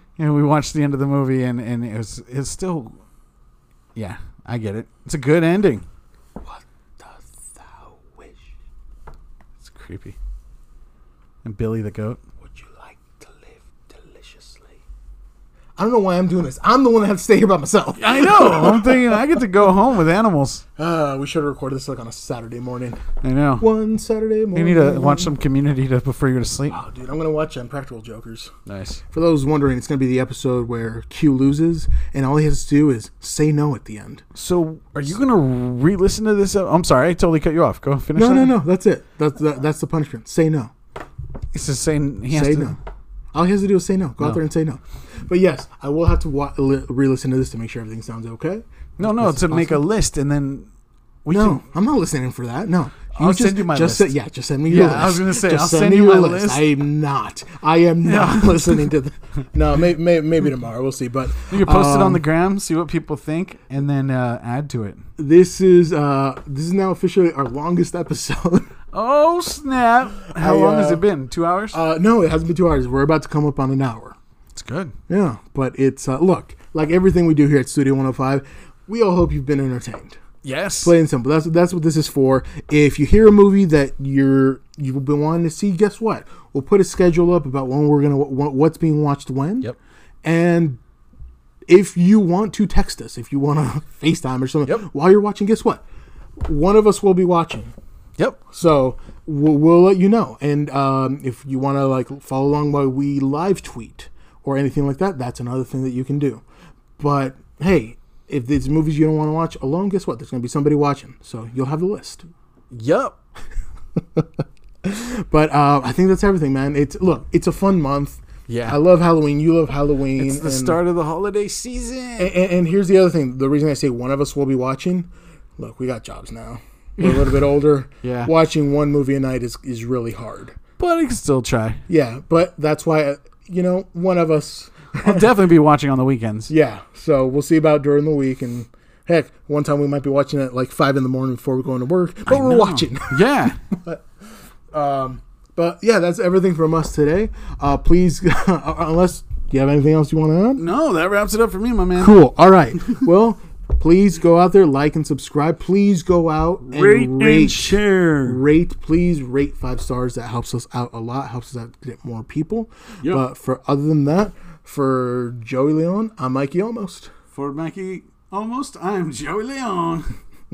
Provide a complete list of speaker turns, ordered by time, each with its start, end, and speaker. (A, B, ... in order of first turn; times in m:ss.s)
0:00.2-0:03.0 A
0:03.9-0:05.9 A
0:06.4-0:08.5 B
0:09.6-0:10.2 A
0:11.4-0:12.2 A
0:12.4-0:14.8 B
0:15.8-0:19.4 B
0:18.0-0:20.6 A
0:20.8-0:23.0 B
0:23.2-0:23.7 A
0:23.6-0:25.3 B
0:24.5-0:26.8 A
0:26.7-0:28.5 B
0:28.6-0:29.0 A
0:29.1-0:34.2 B
0:34.3-0:38.5 A
0:38.1-0:40.7 B
0:41.5-0:42.8 A
0:42.3-0:42.8 B
0:43.3-0:49.8 B
0:49.0-0:50.7 A
0:51.2-0:51.6 A
0:51.3-1:02.2 B
0:53.1-0:54.1 A
0:54.7-0:56.7 A
0:58.0-0:58.9 A
1:01.5-1:05.1 A
1:05.2-1:08.7 B
1:08.9-1:11.8 A
1:10.3-1:11.0 B
1:11.7-1:14.2 B
1:14.5-1:14.9 A
1:15.1-1:20.2 B
1:20.4-1:20.9 A
1:20.8-1:29.7 B
1:30.2-1:30.8 B
1:31.7-1:35.8 B
1:36.4-1:37.7 B
1:38.5-1:46.4 B
1:47.0-1:52.3 B
1:52.7-1:53.2 A
1:54.0-1:54.3 B
1:54.8-2:00.8 B
1:58.5-1:58.8 A
2:00.2-2:02.3 A
2:02.2-2:10.6 B
2:07.0-2:07.3 A
2:08.0-2:08.3 A
2:10.8-2:11.8 A
2:11.9-2:15.3 B
2:15.0-2:16.5 A
2:16.5-2:24.0 B
2:22.3-2:23.6 A
2:24.7-2:30.6 B
2:30.6-2:32.2 A
2:32.0-2:47.1 B
2:36.6-2:38.4 A
2:47.3-2:50.1 A